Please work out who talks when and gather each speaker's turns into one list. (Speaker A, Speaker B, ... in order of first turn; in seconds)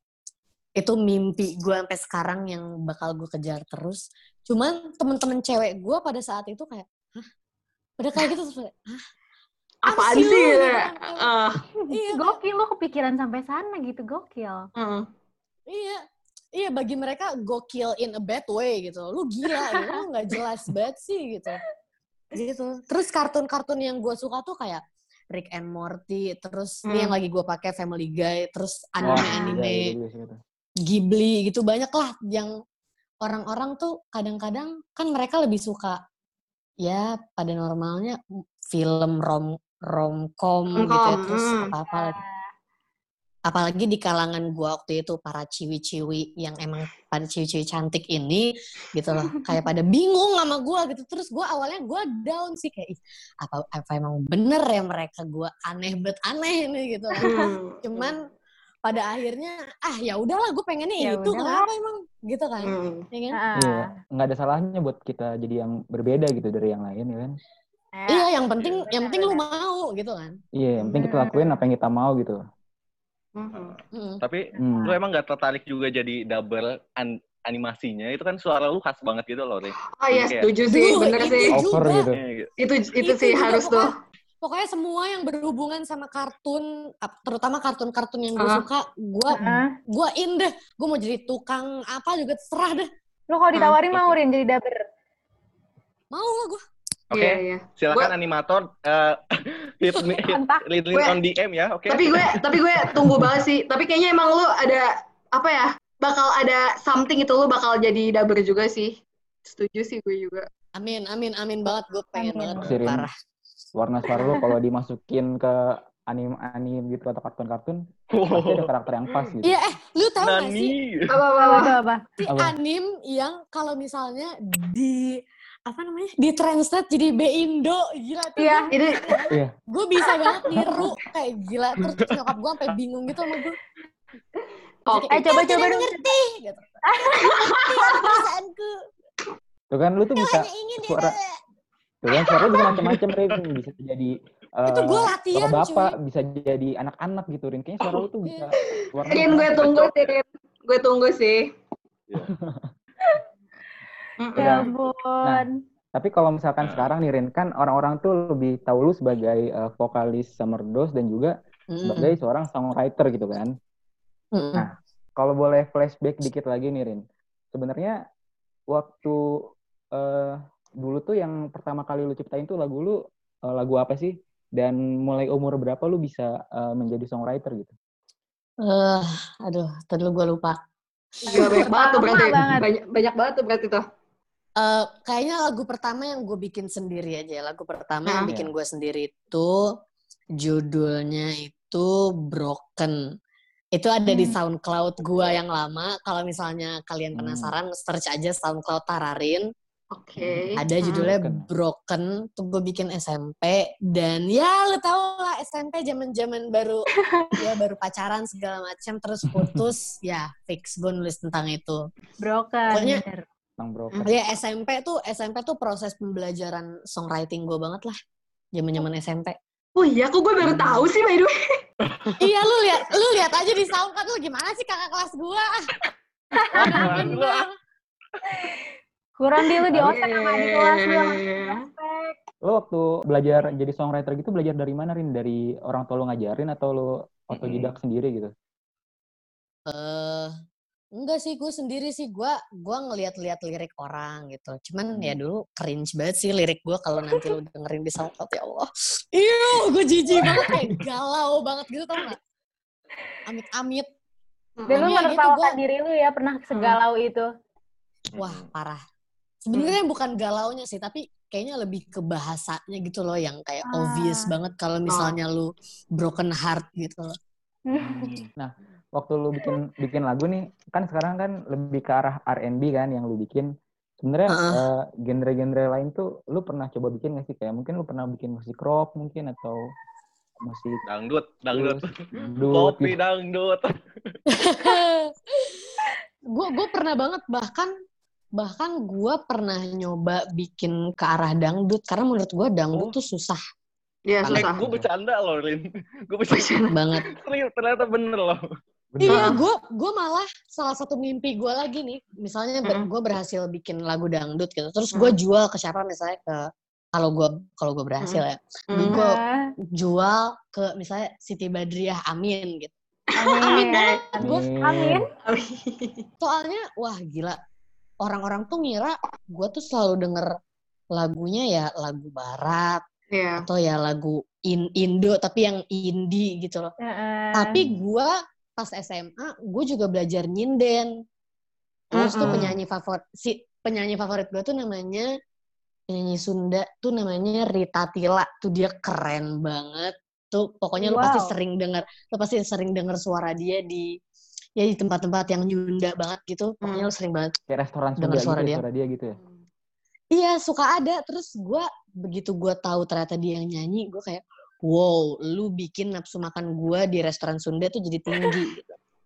Speaker A: 0.8-7.3, 8.0-9.1, 9.9-11.3, 11.9-12.4, 15.7-16.0, 16.6-21.6, 22.4-29.9, 30.9-32.5, 33.2-36.0, 36.8-38.2, 38.7-42.2, 43.5-58.2, 58.9-63.4, 68.1-70.4, 73.9-74.2, 80.7-82.1, 83.0-92.9, 96.1-96.6, 110.8-113.1, 119.4-120.8, 122.2-133.6, 134.9-136.7, 137.4-138.7, 140.2-141.2, 144.7-145.9, 148.3-148.5, 161.7-162.2, 164.3-164.7, 178.6-180.6, 181.2-182.1, 184.6-189.7, 190.4-193.0, 193.7-199.5, 200.6-206.9, 207.4-211.9, 212.7-213.0, 214.1-218.0, 218.5-219.4, 222.2-225.7, 226.6-227.5, 239.7-240.3, 241.0-252.2, 253.3-253.9, 254.7-255.6, 258.1-258.8, 259.4-267.2, 274.3-274.6, 284.3-287.7, 288.4-293.4, 296.7-297.1, 299.0-312.7, 313.4-314.4, 316.2-317.4, 318.0-320.3, 320.9-322.8, 323.4-326.7, 327.3-330.9, 331.9-335.1, 335.9-343.9, 344.6-347.4, 348.0-348.6, 350.1-358.7
Speaker B: 9.8-11.7, 14.8-15.1, 26.9-27.2, 40.7-41.7, 57.2-58.1, 62.6-63.1, 73.4-73.8, 79.9-81.6, 82.6-84.0, 88.4-88.7, 97.1-98.1, 100.9-101.2, 101.9-110.5, 121.1-121.8, 128.7-129.1, 134.9-135.1, 137.3-137.6, 148.6-151.5, 154.2-154.7, 181.3-183.8, 188.1-188.3, 199.9-200.8, 219.8-221.3, 229.9-231.6, 254.6-255.0, 256.5-256.8, 264.9-265.2, 294.1-294.6, 296.3-296.8, 308.0-309.0, 313.2-313.9, 315.3-316.0, 323.1-323.5, 331.9-332.6, 346.6-346.9
Speaker C: 12.1-14.7, 29.1-29.6, 41.9-42.5, 61.0-61.7, 63.3-63.9, 68.0-68.3, 68.9-69.5, 71.0-71.5, 74.5-75.0, 89.3-89.7, 93.3-94.9, 100.1-100.6, 112.2-112.6, 121.4-122.0, 128.4-128.7, 134.9-136.1, 136.9-137.3, 154.4-155.6, 181.3-182.7, 194.1-194.4, 212.2-213.3, 226.4-226.8, 229.2-232.1, 254.7-257.3, 263.7-264.3, 267.7-268.2, 308.8-309.5, 313.2-315.0, 326.8-327.6, 340.8-341.4
Speaker D: 29.0-30.4, 63.5-67.4, 70.5-72.4, 74.6-75.0, 81.5-82.2, 112.6-113.1, 113.8-119.6, 122.3-122.6, 130.5-130.9, 139.7-141.2, 142.0-149.8, 152.4-152.7, 155.2-163.5, 164.6-167.0, 167.5-168.0, 168.7-169.2, 169.9-177.7, 188.2-188.5, 197.2-197.6, 200.9-201.5, 209.3-209.6, 213.6-214.1, 220.4-220.9, 232.4-238.3, 244.9-245.2, 250.2-250.8, 267.8-273.5, 274.0-279.6, 280.4-280.8, 281.5-283.0, 294.3-294.9, 298.9-299.4, 314.2-315.0, 327.5-327.8, 332.2-332.6, 347.5-349.2
Speaker E: 68.6-68.8, 73.5-80.5, 82.1-82.5, 97.1-99.2, 99.8-103.4, 118.1-119.3, 120.2-121.2, 149.3-150.1, 156.6-156.9, 226.6-227.5, 237.3-237.7, 258.2-258.5, 280.9-284.2, 294.4-296.6, 297.1-298.4